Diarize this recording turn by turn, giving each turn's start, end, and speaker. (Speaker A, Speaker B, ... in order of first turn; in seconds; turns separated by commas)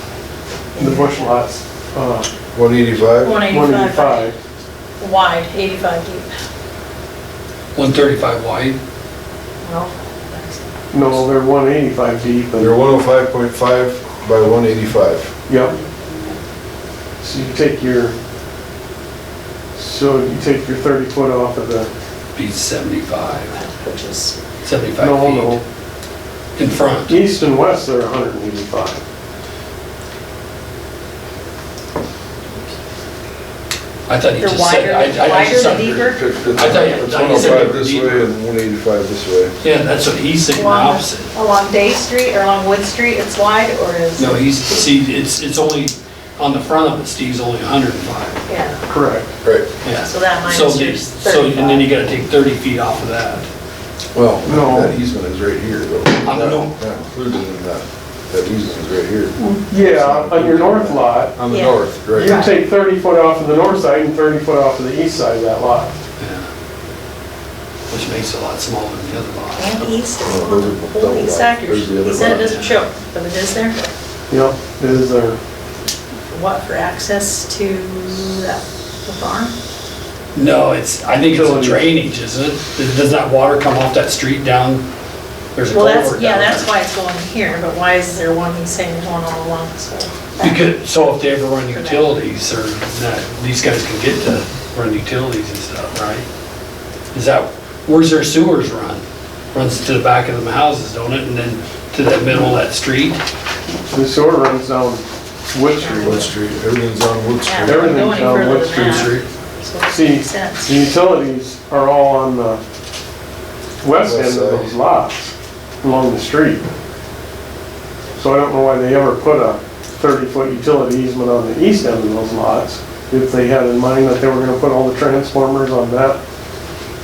Speaker A: 0.8-2.3, Speaker B: 0.8-1.3, Speaker C: 2.5-3.4, Speaker B: 3.2-4.3, Speaker A: 3.5-4.3, Speaker B: 5.0-6.3, Speaker D: 7.8-8.8, Speaker B: 9.6-10.8, Speaker A: 10.9-12.8, Speaker C: 12.6-15.3, Speaker A: 15.5-15.8, Speaker A: 17.2-18.2, Speaker A: 19.8-21.9, Speaker D: 22.3-23.6, Speaker B: 23.3-24.4, Speaker D: 24.6-25.6, Speaker A: 25.0-25.6, Speaker D: 26.6-27.2, Speaker A: 27.1-29.0, Speaker D: 34.1-38.3, Speaker B: 34.4-36.2, Speaker C: 35.7-39.6, Speaker D: 39.6-41.3, Speaker B: 40.5-44.8, Speaker D: 44.1-48.4, Speaker B: 48.5-48.9, Speaker A: 48.9-49.3, Speaker D: 49.8-53.5, Speaker B: 50.0-51.9, Speaker C: 54.1-62.5, Speaker A: 54.4-54.9, Speaker D: 56.2-56.7, Speaker A: 59.4-61.3, Speaker B: 61.5-62.5, Speaker A: 62.1-65.9, Speaker D: 66.2-66.5, Speaker D: 67.9-69.9, Speaker B: 69.6-73.8, Speaker C: 70.2-72.5, Speaker D: 72.2-72.8, Speaker A: 74.3-75.4, Speaker B: 76.3-79.5, Speaker D: 80.3-84.9, Speaker A: 81.3-81.8, Speaker D: 85.5-86.7, Speaker B: 85.7-90.6, Speaker D: 90.4-96.2, Speaker B: 91.7-92.2, Speaker D: 97.1-103.2, Speaker A: 103.7-106.3, Speaker B: 105.8-106.2, Speaker C: 106.0-108.1, Speaker B: 107.4-110.9, Speaker A: 107.6-109.1, Speaker D: 108.8-109.2, Speaker A: 109.9-112.6, Speaker A: 113.8-116.7, Speaker C: 114.0-114.8, Speaker A: 118.2-126.2